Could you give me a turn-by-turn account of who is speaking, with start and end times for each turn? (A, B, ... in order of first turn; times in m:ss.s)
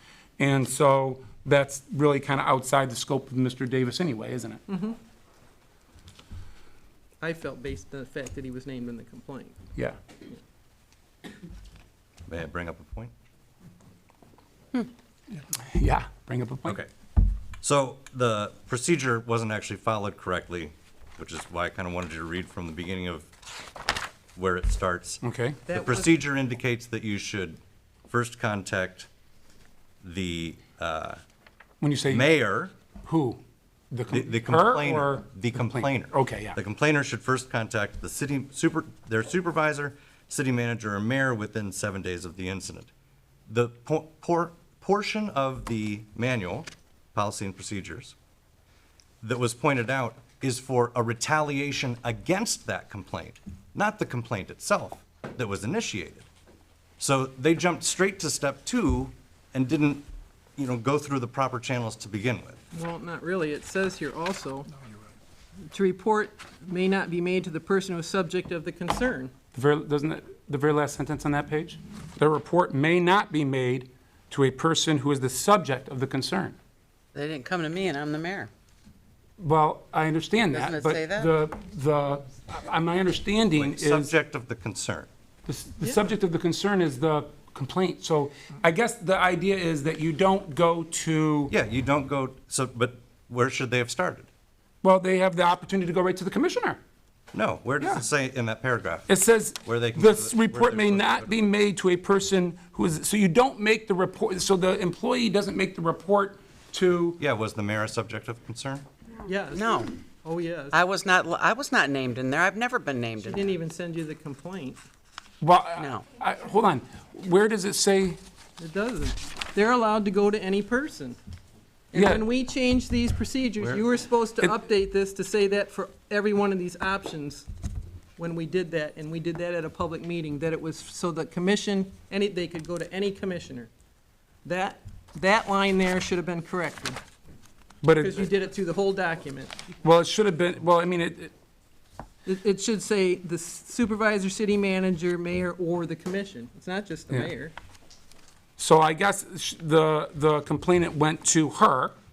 0:00.4-0:04.6 A
0:04.7-0:05.0 B
0:07.2-0:09.6 B
0:12.3-0:13.1 C
0:15.6-0:16.8 A
0:17.6-0:23.3 C
0:24.4-0:29.1 C
0:25.2-0:25.6 A
0:25.7-0:26.1 B
0:30.0-0:31.2 C
0:31.8-0:32.3 A
0:32.1-0:32.7 C
0:33.0-0:36.6 A
0:34.1-0:42.9 C
0:43.5-0:48.2 C
0:49.2-0:56.3 C
0:57.0-1:02.6 C
1:02.7-1:04.7 B
1:05.7-1:09.3 B
1:09.5-1:16.6 A
1:17.1-1:18.5 D
1:19.4-1:24.1 A
1:20.5-1:21.3 D
1:23.6-1:25.1 C
1:25.5-1:31.5 A
1:31.5-1:34.3 C
1:34.8-1:36.8 A
1:37.3-1:39.1 C
1:39.1-1:47.2 A
1:39.6-1:41.3 C
1:47.2-1:48.8 C
1:49.2-1:50.8 B
1:49.5-1:49.9 D
1:50.7-1:53.5 D
1:53.2-1:54.8 B
1:55.4-1:58.2 A
1:55.8-1:56.0 D
1:58.6-2:01.2 B
2:01.9-2:07.5 B
2:02.0-2:02.2 A
2:08.2-2:13.7 B
2:14.4-2:17.0 B
2:17.8-2:18.3 A
2:18.0-2:19.6 B
2:19.8-2:21.3 A
2:22.3-2:27.5 B
2:28.6-2:32.0 A